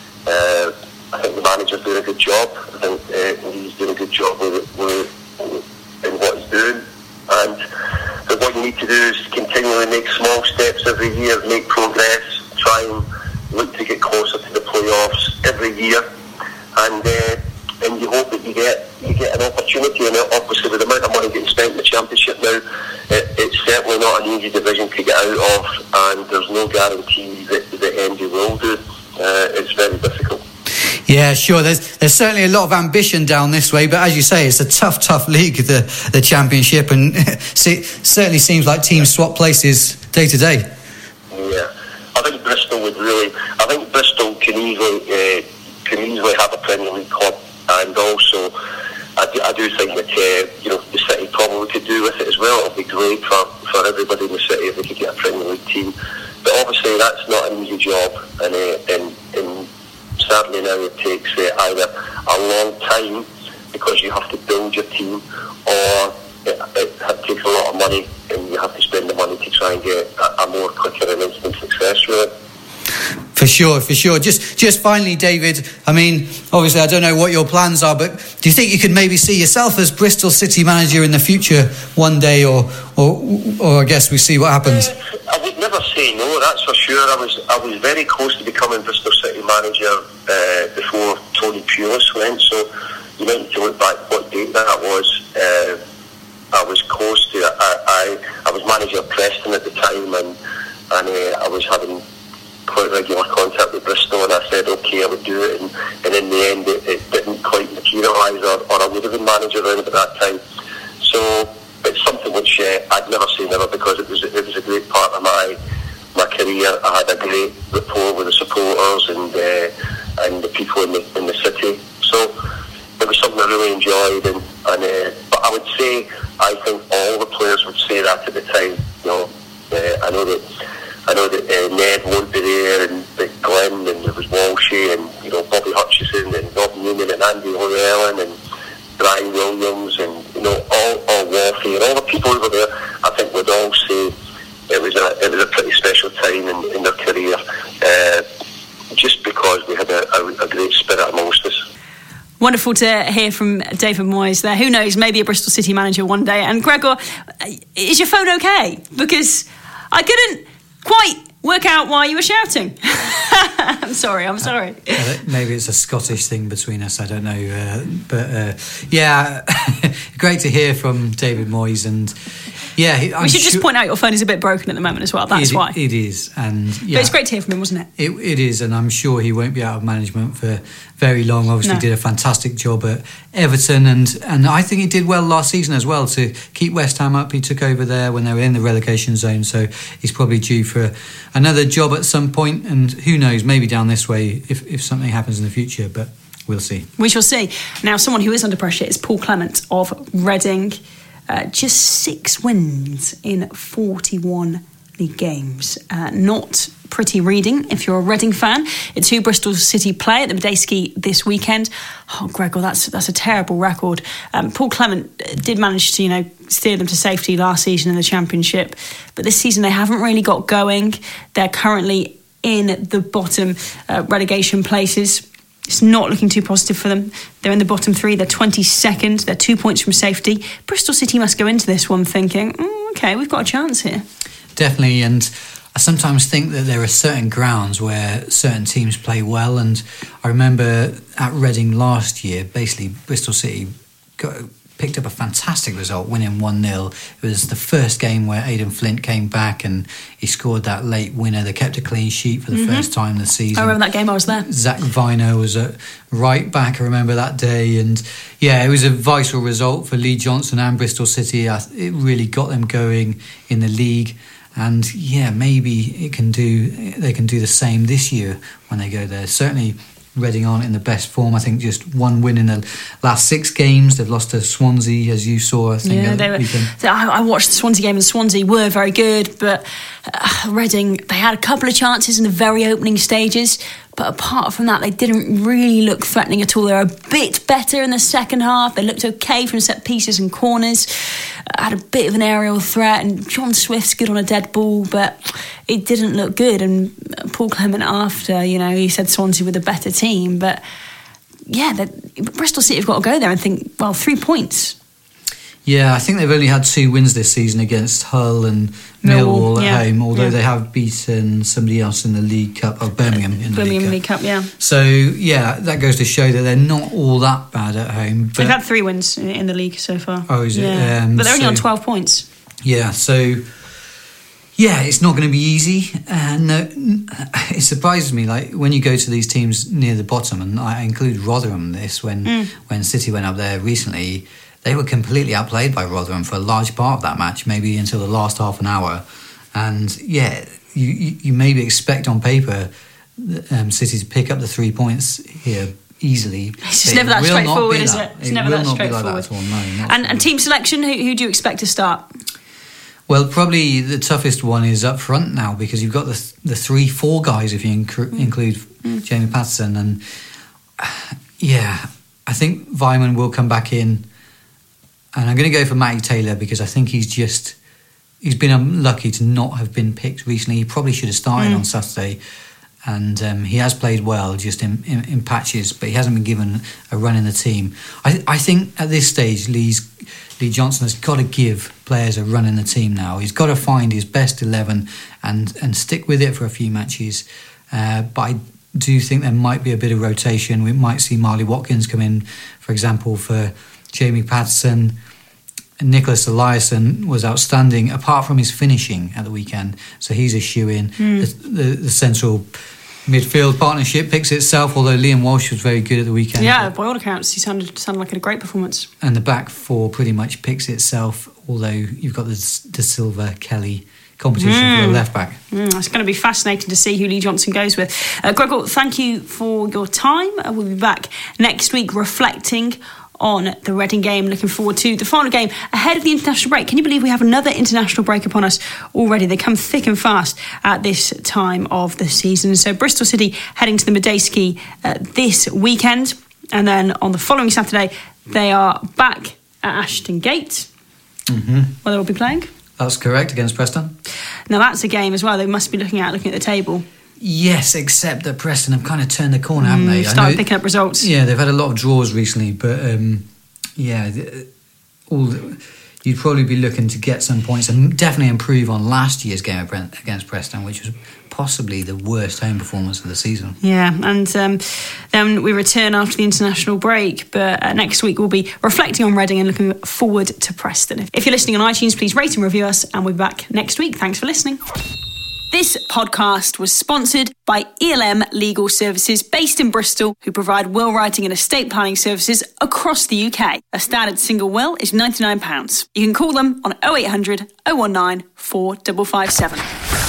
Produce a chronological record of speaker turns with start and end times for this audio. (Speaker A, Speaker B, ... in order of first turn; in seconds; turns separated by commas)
Speaker A: 0.2-7.6, Speaker A: 8.3-16.0, Speaker A: 16.8-30.4, Speaker B: 30.9-40.7, Speaker A: 41.3-48.5, Speaker A: 49.2-59.7, Speaker A: 60.2-72.3, Speaker B: 73.3-84.9, Speaker A: 84.7-92.7, Speaker A: 93.2-95.8, Speaker A: 96.5-100.3, Speaker A: 100.9-102.0, Speaker A: 102.7-110.4, Speaker A: 111.0-115.6, Speaker A: 116.1-122.3, Speaker A: 123.0-130.4, Speaker A: 131.1-138.3, Speaker A: 139.0-144.1, Speaker A: 144.7-148.2, Speaker A: 148.9-151.6, Speaker C: 152.4-165.0, Speaker B: 164.9-172.2, Speaker B: 172.8-173.7, Speaker C: 173.2-175.8, Speaker B: 175.3-177.1, Speaker C: 176.9-177.9, Speaker B: 178.0-196.9, Speaker C: 197.0-234.0, Speaker B: 234.6-276.7, Speaker C: 252.5-252.9, Speaker C: 253.5-254.4, Speaker C: 275.8-290.9, Speaker C: 291.5-300.6, Speaker C: 301.5-304.8, Speaker B: 305.6-314.0, Speaker C: 309.0-310.3, Speaker C: 313.4-314.5, Speaker B: 314.6-318.6, Speaker C: 318.4-322.2, Speaker B: 320.3-321.6, Speaker B: 322.6-323.4, Speaker B: 324.6-350.3, Speaker C: 332.2-332.5, Speaker C: 346.6-349.3, Speaker C: 349.9-352.1, Speaker B: 353.1-360.0, Speaker B: 360.8-364.1, Speaker B: 365.1-367.6, Speaker B: 368.2-372.2, Speaker C: 371.4-371.6, Speaker B: 372.8-394.9, Speaker B: 395.8-402.5, Speaker C: 401.0-401.3, Speaker B: 403.1-406.7, Speaker C: 406.4-408.9, Speaker B: 409.0-415.4, Speaker C: 414.4-440.7, Speaker B: 441.3-441.7, Speaker C: 441.8-442.5, Speaker B: 442.8-443.9, Speaker C: 444.5-446.8, Speaker B: 447.2-453.2, Speaker C: 449.6-451.1, Speaker B: 453.8-454.5, Speaker B: 455.1-463.6, Speaker C: 463.6-474.6, Speaker C: 475.5-489.7